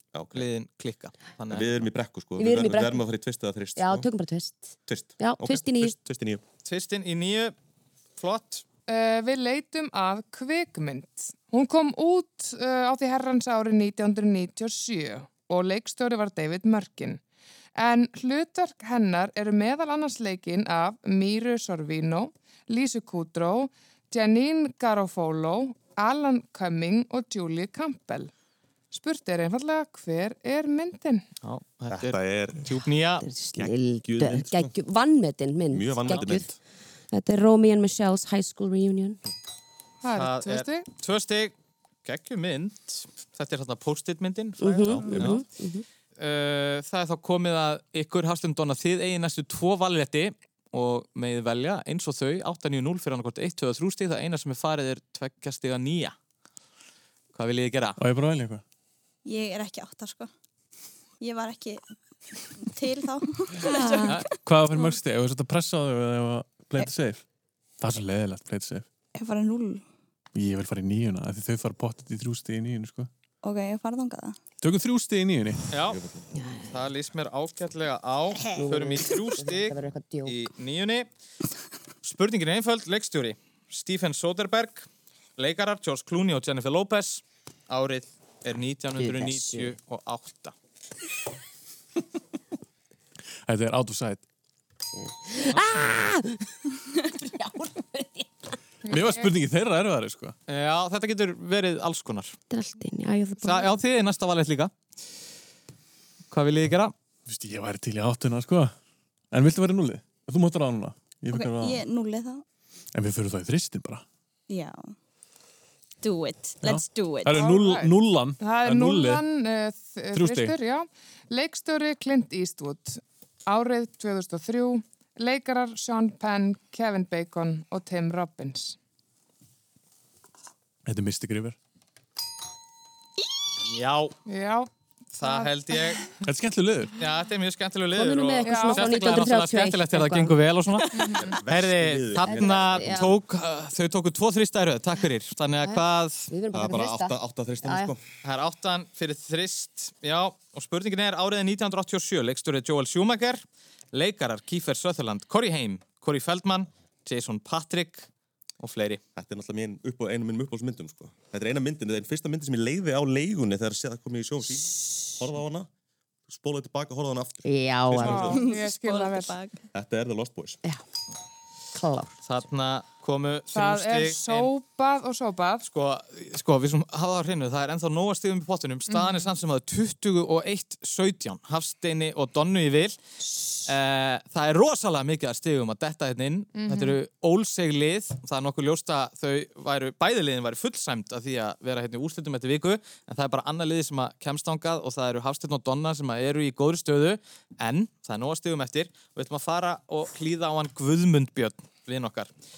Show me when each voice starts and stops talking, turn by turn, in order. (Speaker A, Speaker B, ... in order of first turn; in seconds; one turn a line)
Speaker A: 0.1-0.5
Speaker B: 0.3-1.9
Speaker A: 1.5-4.1
Speaker C: 2.4-3.0
Speaker C: 3.8-5.9
Speaker A: 4.8-6.4
Speaker B: 6.6-7.5
Speaker B: 8.2-8.6
Speaker D: 8.9-17.2
Speaker D: 17.7-28.3
Speaker D: 28.9-31.2
Speaker B: 31.4-33.3
Speaker A: 31.9-32.7
Speaker C: 33.2-36.5
Speaker A: 33.5-34.7
Speaker A: 35.7-36.6
Speaker C: 37.1-39.2
Speaker D: 40.0-40.9
Speaker B: 40.1-45.4
Speaker C: 44.6-45.8
Speaker A: 44.8-45.4
Speaker B: 46.2-56.1
Speaker B: 57.3-58.0
Speaker E: 58.0-58.6
Speaker F: 59.2-60.3
Speaker F: 61.2-61.8
Speaker F: 62.4-64.9
Speaker C: 63.6-64.1
Speaker E: 64.3-67.2
Speaker E: 67.8-68.8
Speaker F: 69.1-69.8
Speaker E: 70.3-73.1
Speaker F: 73.4-74.4
Speaker E: 74.6-75.7
Speaker B: 75.7-76.0
Speaker A: 75.8-76.2
Speaker C: 76.3-76.7
Speaker B: 76.7-81.1
Speaker F: 78.3-78.7
Speaker C: 78.5-80.4
Speaker B: 82.0-90.5
Speaker C: 89.0-89.7
Speaker E: 93.5-94.2
Speaker C: 95.0-96.5
Speaker C: 97.0-98.3
Speaker D: 98.8-99.3
Speaker E: 98.9-100.3
Speaker B: 100.5-102.4
Speaker C: 102.5-103.7
Speaker B: 103.4-104.7
Speaker B: 106.3-106.9
Speaker E: 107.3-108.7
Speaker E: 109.3-111.8
Speaker F: 111.3-112.4
Speaker E: 112.9-114.0
Speaker F: 114.5-114.9
Speaker F: 116.0-117.4
Speaker E: 116.6-119.2
Speaker D: 117.3-128.8
Speaker E: 120.1-120.5
Speaker E: 130.8-131.6
Speaker B: 133.6-134.2
Speaker D: 134.2-136.1
Speaker B: 135.2-136.1
Speaker E: 136.2-136.9
Speaker B: 137.0-146.3
Speaker C: 137.9-140.4
Speaker D: 138.4-139.0
Speaker D: 140.9-141.4
Speaker A: 141.2-143.1
Speaker C: 142.2-143.1
Speaker C: 145.6-147.9
Speaker A: 146.5-148.0
Speaker B: 148.2-158.1
Speaker B: 158.6-159.0
Speaker A: 159.2-165.7
Speaker A: 166.3-168.4
Speaker C: 167.4-168.3
Speaker D: 168.0-169.4
Speaker F: 168.3-169.6
Speaker A: 169.7-170.6
Speaker C: 171.7-172.2
Speaker B: 172.2-174.5
Speaker D: 173.5-175.6
Speaker B: 175.6-183.0
Speaker D: 178.9-179.3
Speaker B: 183.6-202.3
Speaker D: 186.5-187.0